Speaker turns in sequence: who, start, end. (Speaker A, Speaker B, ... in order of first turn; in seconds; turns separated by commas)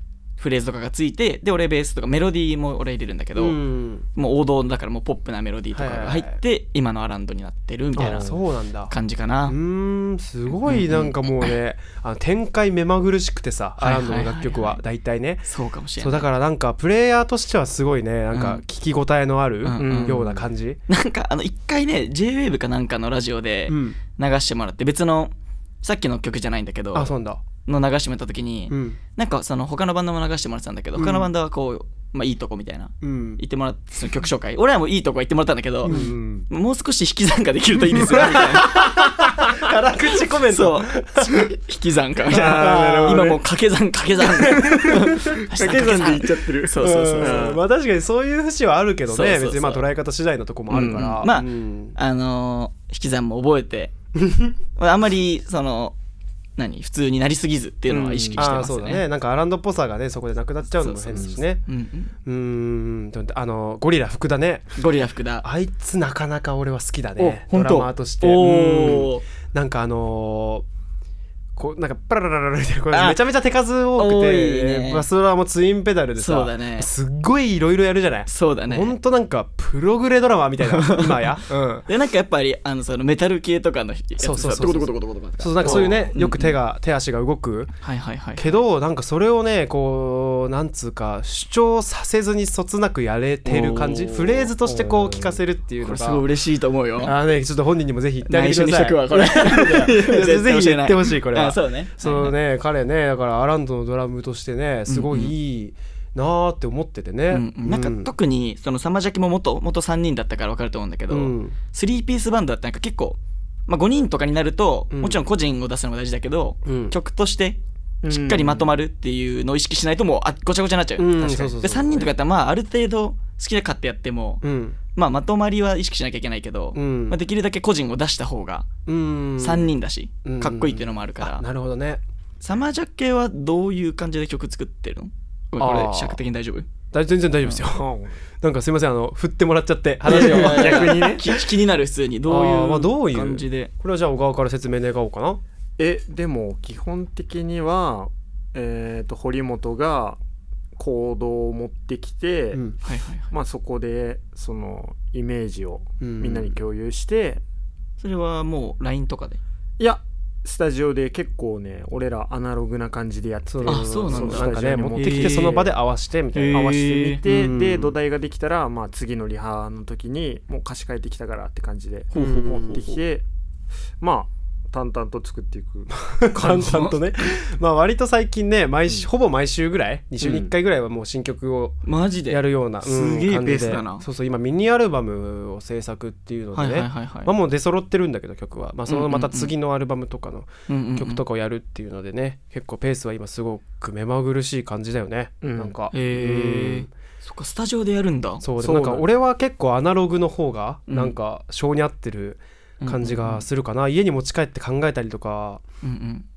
Speaker A: 0.4-3.6, Speaker B: 3.4-4.0, Speaker A: 4.1-8.3, Speaker B: 5.7-6.4, Speaker C: 8.0-8.3, Speaker B: 8.0-8.9, Speaker A: 8.9-9.6, Speaker B: 9.5-15.5, Speaker A: 10.6-11.1, Speaker A: 13.8-14.8, Speaker A: 15.5-16.3, Speaker B: 16.0-20.8, Speaker A: 18.3-18.6, Speaker A: 19.6-20.2, Speaker C: 19.8-20.4, Speaker A: 20.9-27.1, Speaker B: 23.7-24.0, Speaker B: 26.9-27.4, Speaker A: 27.6-39.0, Speaker B: 28.7-29.0, Speaker B: 30.9-31.3, Speaker B: 33.0-33.4, Speaker B: 35.8-36.5, Speaker C: 35.9-36.1, Speaker B: 38.1-41.5, Speaker A: 40.5-47.5, Speaker C: 42.3-43.4, Speaker B: 42.3-43.4, Speaker B: 44.3-45.4, Speaker C: 44.4-47.6, Speaker B: 46.8-52.0, Speaker A: 49.1-49.8, Speaker C: 50.7-51.1, Speaker A: 50.7-53.9, Speaker B: 54.1-54.6, Speaker A: 54.8-55.9, Speaker A: 56.6-59.0, Speaker C: 57.9-58.5, Speaker B: 58.4-61.6, Speaker A: 60.8-62.1, Speaker B: 62.2-64.7, Speaker A: 64.8-65.5, Speaker B: 65.4-70.7, Speaker A: 67.2-69.2, Speaker B: 71.5-81.9, Speaker A: 72.9-73.2, Speaker A: 74.0-75.0, Speaker A: 76.2-76.9, Speaker A: 78.3-78.9, Speaker A: 80.6-86.6, Speaker B: 84.2-87.8, Speaker C: 85.6-85.9, Speaker A: 87.8-88.5, Speaker B: 88.3-96.2, Speaker A: 93.5-94.5, Speaker C: 94.6-95.4, Speaker A: 95.8-97.1, Speaker B: 97.0-108.1, Speaker A: 98.3-102.3, Speaker A: 104.9-105.3, Speaker A: 107.3-124.4, Speaker B: 111.1-111.5, Speaker B: 114.9-115.2, Speaker B: 116.6-116.9, Speaker C: 118.0-118.7, Speaker B: 121.0-122.1, Speaker B: 124.4-124.8, Speaker A: 124.9-128.7, Speaker B: 126.7-127.2, Speaker B: 128.8-129.7, Speaker A: 129.4-131.4, Speaker B: 130.2-132.0, Speaker A: 132.4-136.7, Speaker B: 135.6-136.2, Speaker B: 136.9-137.9, Speaker C: 137.7-138.2, Speaker B: 138.4-141.3, Speaker C: 140.1-141.2, Speaker A: 140.1-143.7, Speaker B: 142.3-145.4, Speaker C: 145.8-150.2, Speaker C: 150.8-152.8, Speaker A: 152.8-153.3, Speaker C: 153.3-157.4, Speaker B: 156.0-156.6, Speaker A: 158.0-159.4, Speaker C: 159.8-165.7, Speaker B: 163.5-167.9, Speaker A: 163.7-165.6, Speaker A: 166.3-167.2, Speaker C: 166.5-173.2, Speaker A: 172.1-173.0, Speaker B: 172.1-172.8, Speaker C: 174.0-176.1, Speaker B: 175.9-196.9, Speaker A: 176.4-176.9, Speaker C: 180.2-180.5, Speaker A: 181.8-184.0, Speaker C: 183.4-183.8, Speaker A: 186.5-187.3, Speaker A: 188.9-189.5, Speaker A: 190.7-191.2, Speaker C: 195.4-195.7, Speaker A: 195.9-198.4, Speaker B: 198.4-205.6, Speaker C: 198.6-199.0, Speaker A: 200.9-201.2, Speaker A: 202.8-203.4, Speaker A: 205.8-206.2